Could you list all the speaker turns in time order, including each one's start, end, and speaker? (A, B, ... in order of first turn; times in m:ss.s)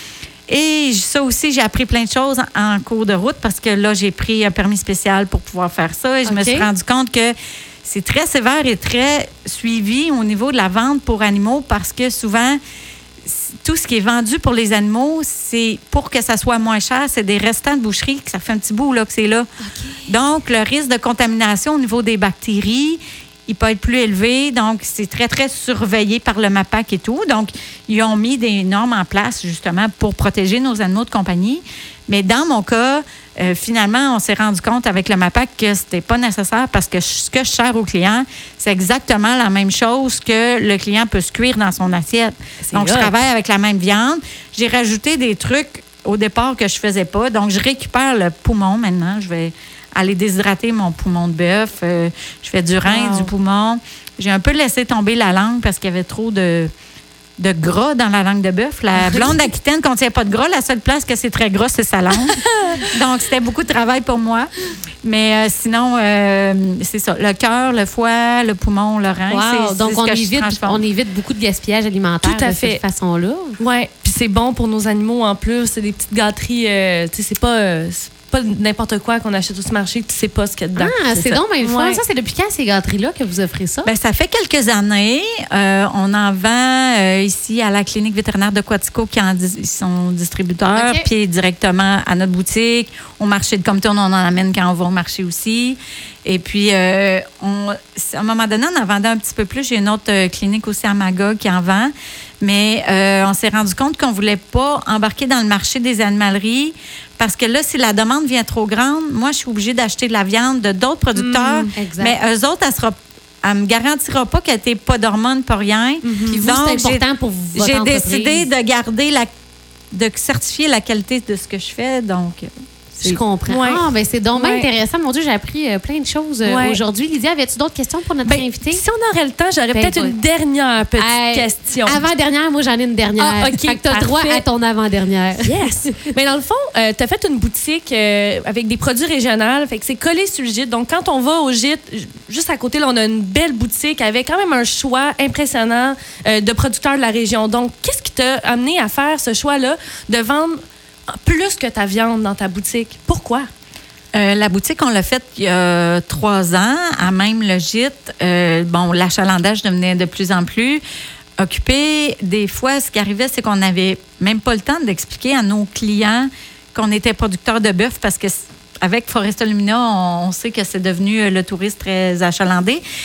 0:00.5-0:12.6 A
0:06.3-0:06.7 B
0:13.2-0:19.5 A
0:19.7-0:20.1 B
0:20.1-0:56.7 A
0:42.6-0:43.1 C
0:52.8-0:53.3 C
0:57.4-1:02.4 A
0:59.0-0:59.3 C
1:02.2-1:02.8 C
1:02.9-1:04.5 A
1:05.0-1:10.8 A
1:09.3-1:13.6 B
1:12.2-1:12.8 C
1:13.6-1:22.0 C
1:20.8-1:23.9 B
1:23.8-1:59.3 A
1:30.7-1:31.1 B
1:51.2-1:51.8 C
1:51.8-1:52.2 B
1:56.0-1:56.4 C
1:56.3-1:58.5 B
1:59.9-2:03.2 A
2:03.0-2:08.8 B
2:03.5-2:04.7 C
2:06.4-2:06.8 C
2:08.2-2:12.0 C
2:09.7-2:10.2 B
2:11.0-2:16.1 B
2:13.2-2:14.4 C
2:15.4-2:30.6 C
2:31.2-2:33.5 C
2:34.1-2:40.8 A
2:41.4-2:52.8 A